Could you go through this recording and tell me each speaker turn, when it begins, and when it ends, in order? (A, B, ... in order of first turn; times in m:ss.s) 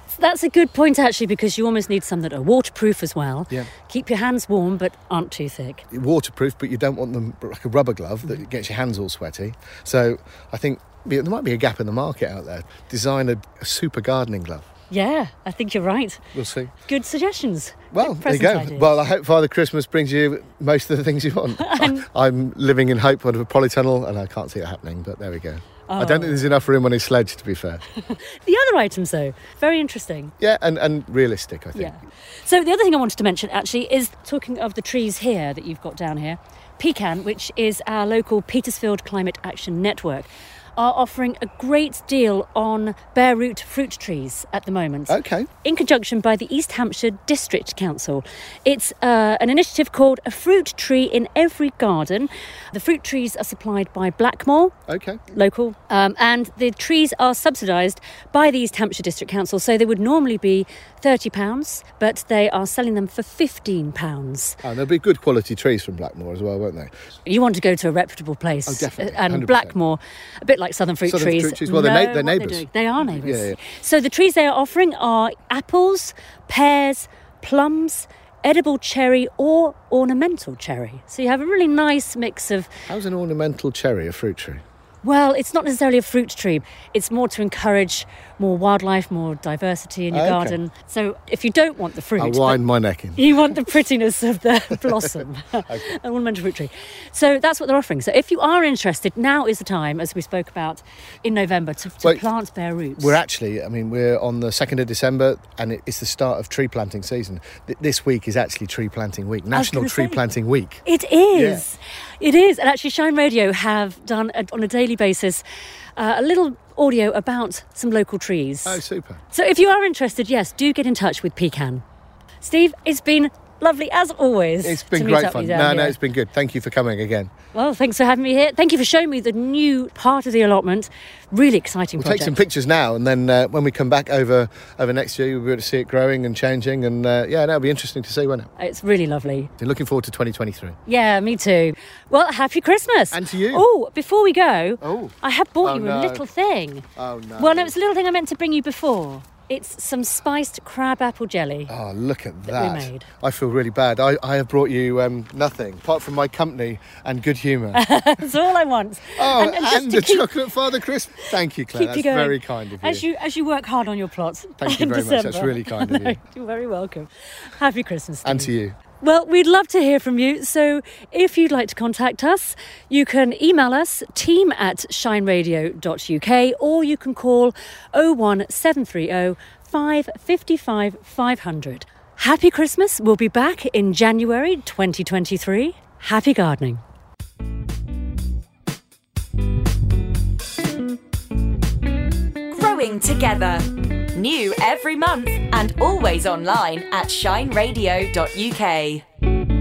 0:00.1-0:05.8 A
0:05.9-0:14.7 B
0:14.9-0:16.2 A
0:16.3-0:16.7 B
0:16.8-0:18.9 A
0:17.9-0:27.8 B
0:21.6-0:22.0 A
0:25.9-0:26.5 A
0:28.0-0:30.3 A
0:30.4-0:31.9 B
0:31.7-0:54.7 A
0:45.1-0:45.5 B
0:54.9-0:55.2 B
0:55.3-1:04.6 A
1:04.6-1:07.1 B
1:07.2-1:22.7 A
1:08.7-1:09.8 B
1:11.0-1:13.6 B
1:22.9-1:24.6 B
1:25.0-1:32.6 A
1:30.1-1:30.6 B
1:32.2-1:33.3 B
1:33.2-1:43.2 A
1:34.8-1:35.9 B
1:43.0-1:51.6 B
1:49.5-1:50.2 A
1:50.8-1:55.4 A
1:56.0-2:01.8 A
1:58.6-1:59.2 B
2:02.4-2:06.0 A
2:04.6-2:07.3 B
2:07.5-2:12.3 A
2:12.0-2:18.5 B
2:18.6-2:19.5 A
2:19.6-2:20.8 B
2:20.8-2:26.8 A
2:23.1-2:23.6 B
2:24.8-2:26.2 B
2:27.0-2:27.7 B
2:27.4-2:31.7 A
2:31.7-2:37.8 B
2:32.5-2:33.1 A
2:37.7-2:40.3 A
2:39.2-2:43.0 B
2:41.7-3:06.8 A
2:44.6-2:46.2 B
2:48.2-2:48.7 B
3:12.5-3:19.0 C